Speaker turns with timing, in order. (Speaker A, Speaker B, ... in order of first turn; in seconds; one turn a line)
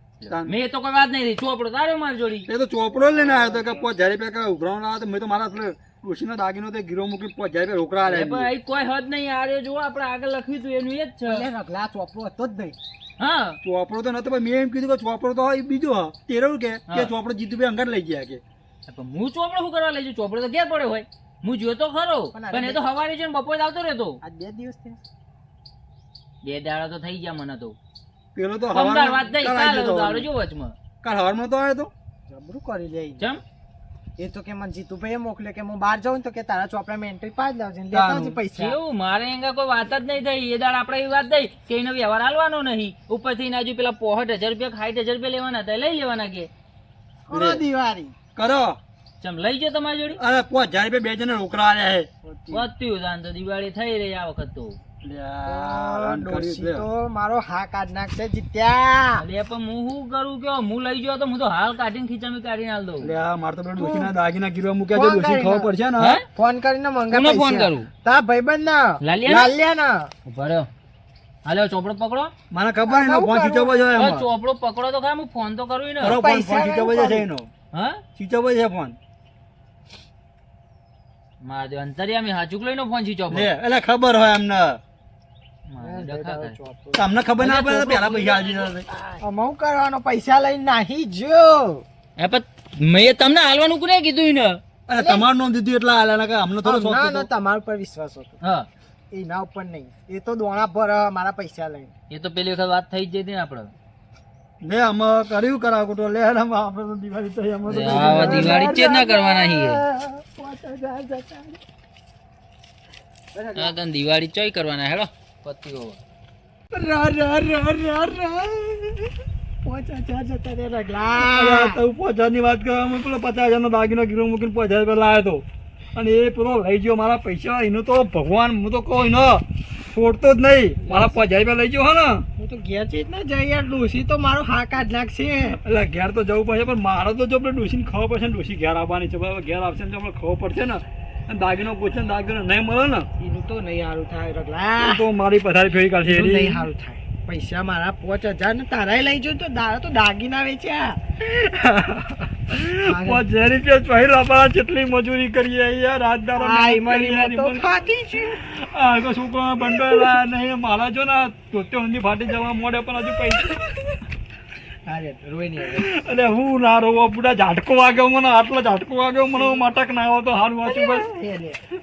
Speaker A: 0.2-0.5
Speaker B: 0.4-2.5
Speaker A: 2.5-8.5
Speaker C: 3.2-3.8
Speaker B: 8.1-11.4
Speaker C: 11.2-12.8
Speaker B: 13.2-13.6
Speaker A: 13.6-18.4
Speaker B: 18.9-24.2
Speaker C: 22.3-22.8
Speaker C: 24.2-25.0
Speaker B: 26.4-27.8
Speaker A: 28.4-30.3
Speaker B: 28.7-30.8
Speaker A: 31.0-31.9
Speaker C: 32.3-33.3
Speaker C: 34.2-38.8
Speaker A: 37.9-38.4
Speaker B: 38.5-46.5
Speaker C: 47.3-48.1
Speaker A: 47.3-47.6
Speaker A: 48.4-48.8
Speaker B: 49.2-50.2
Speaker A: 50.2-52.1
Speaker C: 52.2-52.7
Speaker B: 52.5-54.8
Speaker A: 55.0-56.9
Speaker C: 55.4-59.2
Speaker B: 59.2-63.1
Speaker A: 63.0-66.2
Speaker C: 63.8-64.1
Speaker C: 64.9-65.7
Speaker B: 66.0-66.2
Speaker C: 66.3-70.1
Speaker B: 67.1-67.9
Speaker B: 69.0-69.5
Speaker B: 70.2-70.7
Speaker B: 71.4-72.3
Speaker A: 72.5-74.2
Speaker C: 72.9-73.9
Speaker B: 74.0-76.2
Speaker A: 76.0-77.5
Speaker C: 76.0-77.2
Speaker B: 77.7-78.0
Speaker A: 78.2-79.0
Speaker B: 81.4-83.5
Speaker A: 83.3-84.8
Speaker B: 85.7-86.5
Speaker C: 85.8-87.1
Speaker A: 86.9-88.9
Speaker B: 87.4-88.4
Speaker C: 88.9-91.8
Speaker B: 92.2-94.6
Speaker A: 94.9-97.3
Speaker C: 95.0-95.2
Speaker C: 96.6-98.4
Speaker B: 98.4-98.7
Speaker C: 99.1-101.9
Speaker B: 102.1-103.7
Speaker A: 104.6-108.7
Speaker B: 107.7-109.8
Speaker C: 107.7-111.6
Speaker C: 113.3-113.7
Speaker B: 113.5-116.0
Speaker C: 116.7-119.1
Speaker C: 119.6-121.8
Speaker A: 121.2-125.4
Speaker A: 125.9-132.2
Speaker C: 130.8-131.2
Speaker C: 132.4-135.6
Speaker A: 135.6-143.1
Speaker C: 143.2-145.0
Speaker A: 144.8-146.7
Speaker C: 146.1-151.0
Speaker A: 151.2-163.8
Speaker C: 152.8-153.2
Speaker C: 156.4-158.4
Speaker C: 159.6-160.1
Speaker C: 164.9-165.9
Speaker A: 165.7-171.1
Speaker C: 169.4-169.6
Speaker C: 170.6-171.6